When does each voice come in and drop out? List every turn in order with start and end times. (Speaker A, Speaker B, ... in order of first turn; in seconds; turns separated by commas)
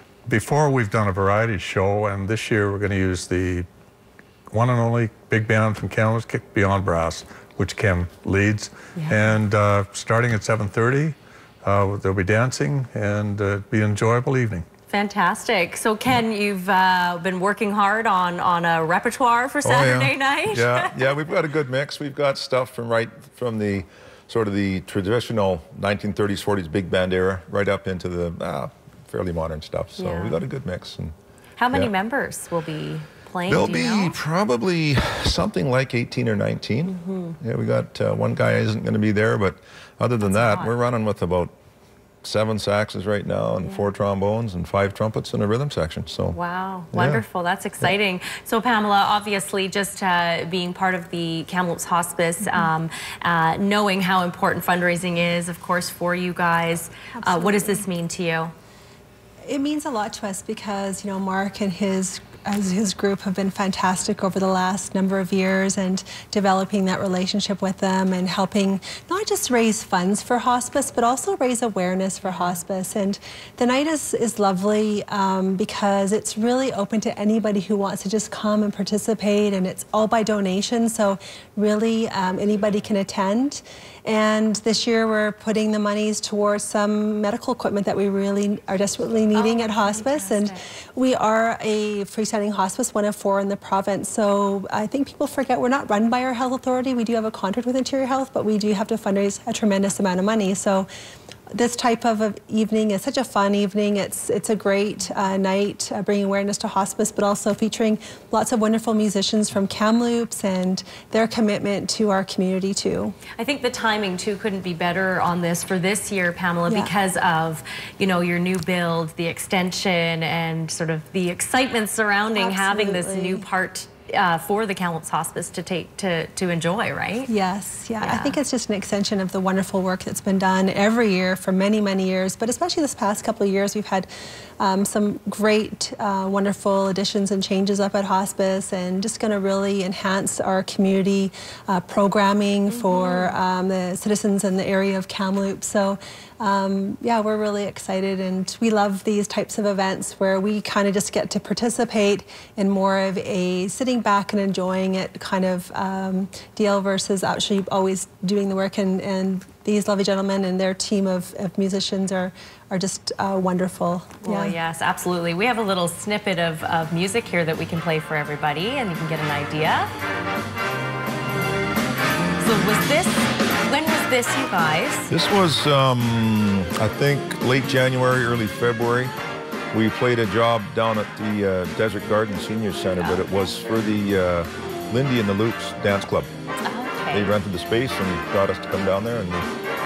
Speaker A: 0.3-3.7, Speaker A: 4.5-14.6, Speaker B: 9.0-9.4, Speaker B: 14.9-21.1, Speaker C: 19.6-31.1, Speaker B: 30.0-30.4, Speaker B: 31.6-34.2, Speaker C: 33.5-41.5, Speaker B: 36.9-37.4, Speaker B: 40.2-40.8, Speaker C: 42.2-46.4, Speaker B: 43.6-43.9, Speaker B: 46.3-58.5, Speaker C: 46.9-47.2, Speaker D: 57.2-57.9, Speaker D: 59.5-100.9, Speaker B: 72.2-72.6, Speaker B: 89.3-90.6, Speaker D: 101.5-113.2, Speaker B: 113.4-127.3, Speaker D: 116.7-116.9, Speaker D: 122.3-123.5, Speaker D: 127.3-134.1, Speaker B: 128.0-128.4, Speaker D: 134.6-164.6, Speaker B: 142.7-143.4, Speaker B: 164.2-169.9, Speaker B: 172.4-175.1, Speaker C: 175.1-179.1, Speaker C: 179.7-186.3, Speaker B: 183.0-183.2, Speaker B: 186.6-187.3, Speaker C: 187.1-189.5